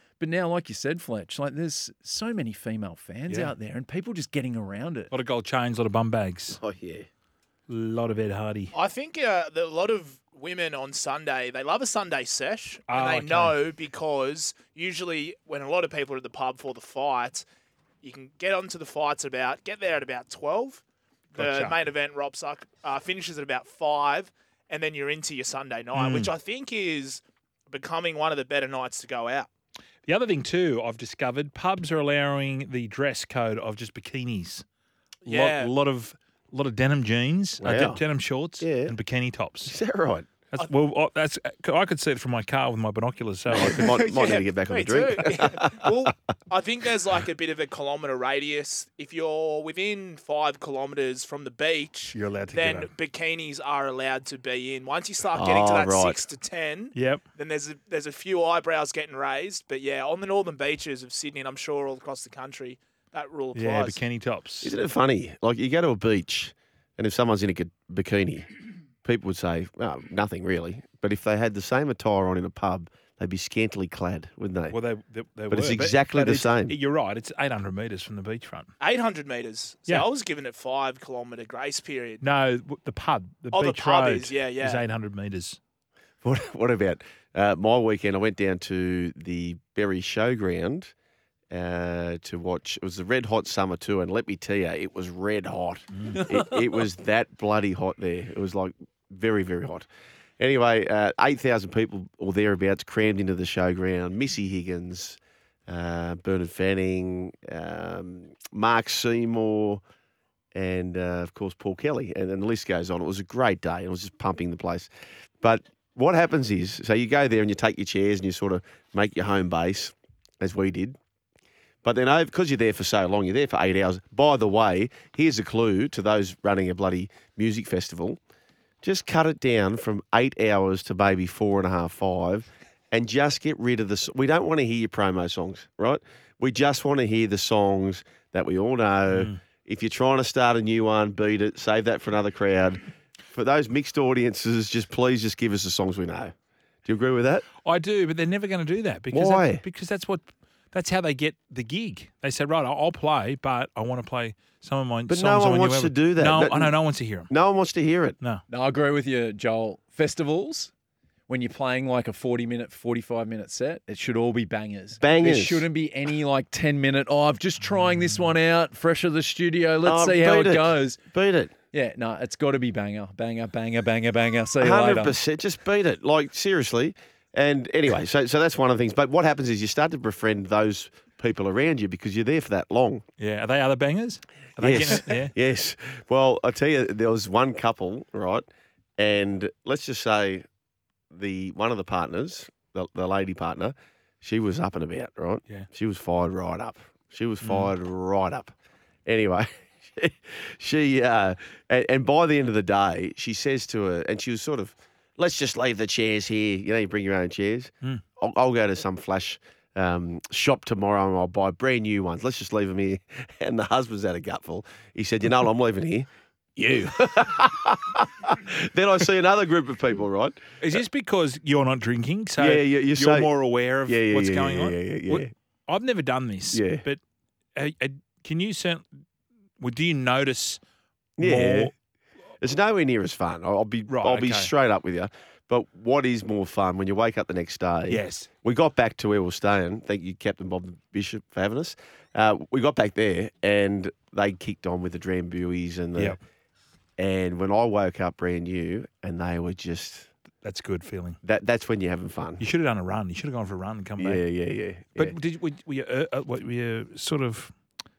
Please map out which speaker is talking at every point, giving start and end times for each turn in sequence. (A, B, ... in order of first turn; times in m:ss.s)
0:00.2-0:05.1 A
0:03.3-0:03.5 B
0:05.1-0:06.6 B
0:06.6-0:07.1 C
0:07.7-0:08.7 B
0:08.7-0:17.4 D
0:12.9-0:13.5 B
0:18.0-0:29.5 D
0:21.4-0:21.8 B
0:25.9-0:26.3 B
0:30.1-0:34.6 B
0:35.2-0:35.7 D
0:35.2-0:39.8 B
0:37.6-0:38.0 C
0:38.6-0:39.0 C
0:39.6-0:40.3 C
0:40.5-0:44.1 B
0:43.5-0:45.9 C
0:44.0-1:04.0 D
0:52.1-0:52.9 B
0:55.4-0:56.2 C
0:56.9-0:57.2 B
1:03.5-1:04.7 B
1:04.6-1:08.5 C
1:09.0-1:14.8 C
1:14.7-1:18.7 B
1:15.5-1:16.7 C
1:18.8-1:22.2 D
1:22.2-1:25.6 B
1:23.5-1:24.8 D
1:26.2-1:30.9 C
1:31.5-1:39.9 C
1:35.9-1:36.2 B
1:40.4-1:49.8 C
1:50.5-1:54.9 C
1:55.4-2:01.0 C
2:01.8-2:08.2 C
2:08.8-2:26.3 C
2:19.1-2:19.4 B
2:26.8-2:27.4 C
2:27.6-2:37.3 B
2:29.1-2:29.6 C
2:35.1-2:36.7 C
2:37.3-2:38.2 C
2:38.5-2:40.7 A
2:41.3-2:51.0 A
2:45.0-2:45.6 C
2:47.6-2:48.3 B
2:49.8-2:51.5 C
2:51.7-2:55.2 A
2:54.6-3:03.0 C
3:03.2-3:05.3 B
3:04.6-3:08.4 C
3:09.0-3:10.4 C
3:11.1-3:18.5 C
3:17.4-3:17.7 B
3:19.1-3:40.4 C
3:40.6-3:47.0 B
3:42.4-3:43.3 C
3:43.8-3:45.3 C
3:46.5-3:46.8 C
3:47.5-3:48.9 B
3:49.6-3:50.6 B
3:51.2-3:51.7 C
3:51.2-3:51.7 B
3:52.4-4:06.2 C
3:53.9-3:54.5 B
3:57.9-3:58.3 B
4:07.0-4:10.1 C
4:10.4-4:11.2 B
4:11.2-4:12.4 C
4:12.4-4:14.2 B
4:14.0-4:15.2 C
4:15.0-4:17.5 B